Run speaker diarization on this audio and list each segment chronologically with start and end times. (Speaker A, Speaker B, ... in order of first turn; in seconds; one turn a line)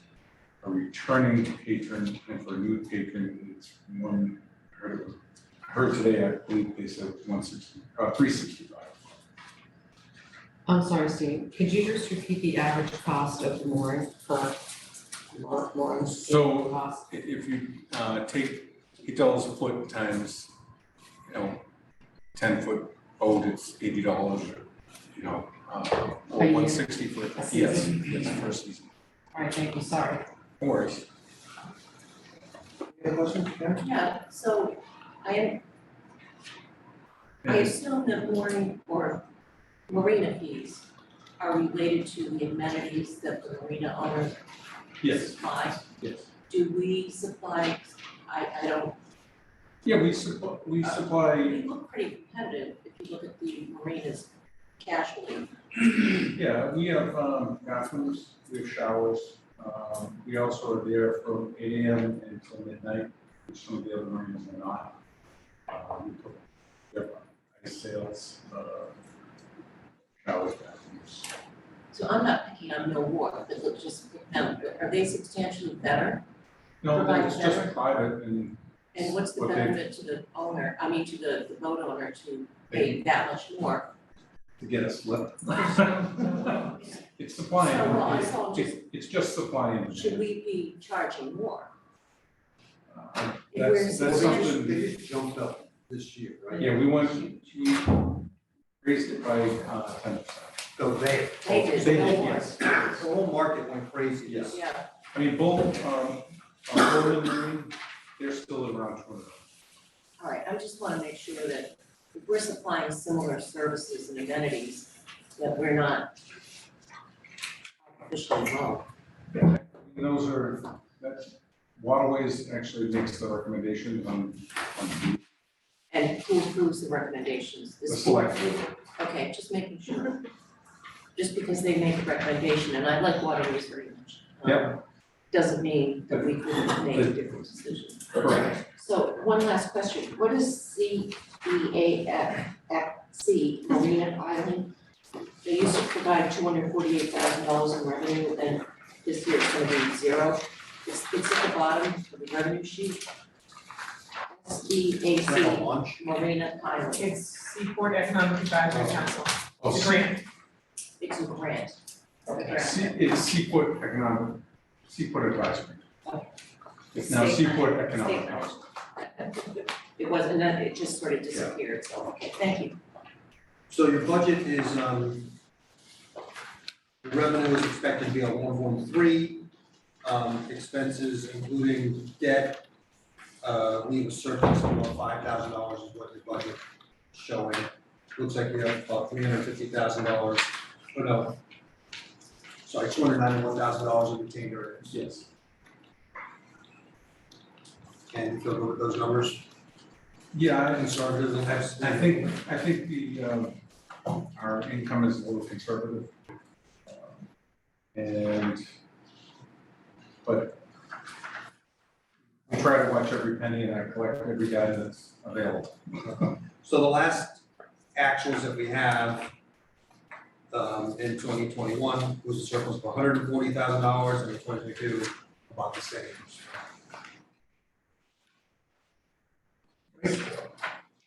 Speaker A: 0.6-9.2
Speaker B: 10.7-14.6
Speaker B: 15.3-17.0
Speaker A: 16.2-20.5
Speaker A: 21.3-21.7
Speaker A: 22.4-28.9
Speaker B: 26.4-28.3
Speaker B: 29.3-30.2
Speaker A: 30.6-31.1
Speaker C: 32.9-33.8
Speaker D: 33.8-35.6
Speaker A: 37.4-37.8
Speaker D: 37.4-39.3
Speaker D: 39.9-40.9
Speaker D: 41.4-44.4
Speaker A: 45.0-46.3
Speaker D: 45.0-45.8
Speaker D: 46.5-49.0
Speaker A: 49.9-51.6
Speaker D: 50.8-55.5
Speaker A: 56.3-65.0
Speaker A: 65.7-69.0
Speaker A: 70.2-71.3
Speaker D: 71.9-76.2
Speaker A: 76.8-79.8
Speaker D: 76.9-77.8
Speaker D: 79.0-83.9
Speaker A: 82.7-83.0
Speaker A: 84.6-90.2
Speaker D: 87.6-88.8
Speaker D: 89.9-91.7
Speaker A: 92.9-95.0
Speaker D: 93.5-94.6
Speaker C: 94.0-96.8
Speaker D: 96.5-97.6
Speaker A: 96.6-98.2
Speaker A: 98.8-100.7
Speaker C: 100.8-104.6
Speaker D: 101.4-102.7
Speaker A: 101.5-103.1
Speaker A: 104.3-104.6
Speaker D: 104.5-104.9
Speaker A: 105.1-109.4
Speaker D: 110.2-116.1
Speaker D: 117.9-118.9
Speaker A: 119.4-125.2
Speaker D: 125.9-130.2
Speaker A: 127.9-128.7
Speaker D: 131.2-134.8
Speaker A: 134.4-134.8
Speaker D: 135.3-144.7
Speaker A: 136.1-137.2
Speaker A: 138.1-138.5
Speaker D: 145.4-153.1
Speaker D: 154.3-157.1
Speaker C: 155.2-156.0
Speaker E: 156.9-160.2
Speaker C: 158.7-159.1
Speaker A: 159.6-160.1
Speaker D: 161.0-161.8
Speaker D: 162.3-163.0
Speaker A: 162.4-165.8
Speaker A: 166.9-168.6
Speaker D: 166.9-172.8
Speaker C: 173.7-175.4
Speaker C: 177.0-179.5
Speaker C: 180.0-182.7
Speaker C: 183.4-191.4
Speaker C: 192.6-195.0
Speaker A: 194.9-195.3
Speaker C: 198.1-199.5
Speaker A: 200.3-203.6
Speaker C: 200.9-202.3
Speaker A: 204.3-206.2
Speaker A: 206.9-207.2
Speaker A: 207.9-208.7
Speaker A: 210.2-210.6
Speaker A: 212.5-215.9
Speaker C: 216.0-217.4
Speaker C: 217.9-219.3
Speaker C: 220.5-226.6
Speaker C: 230.0-230.5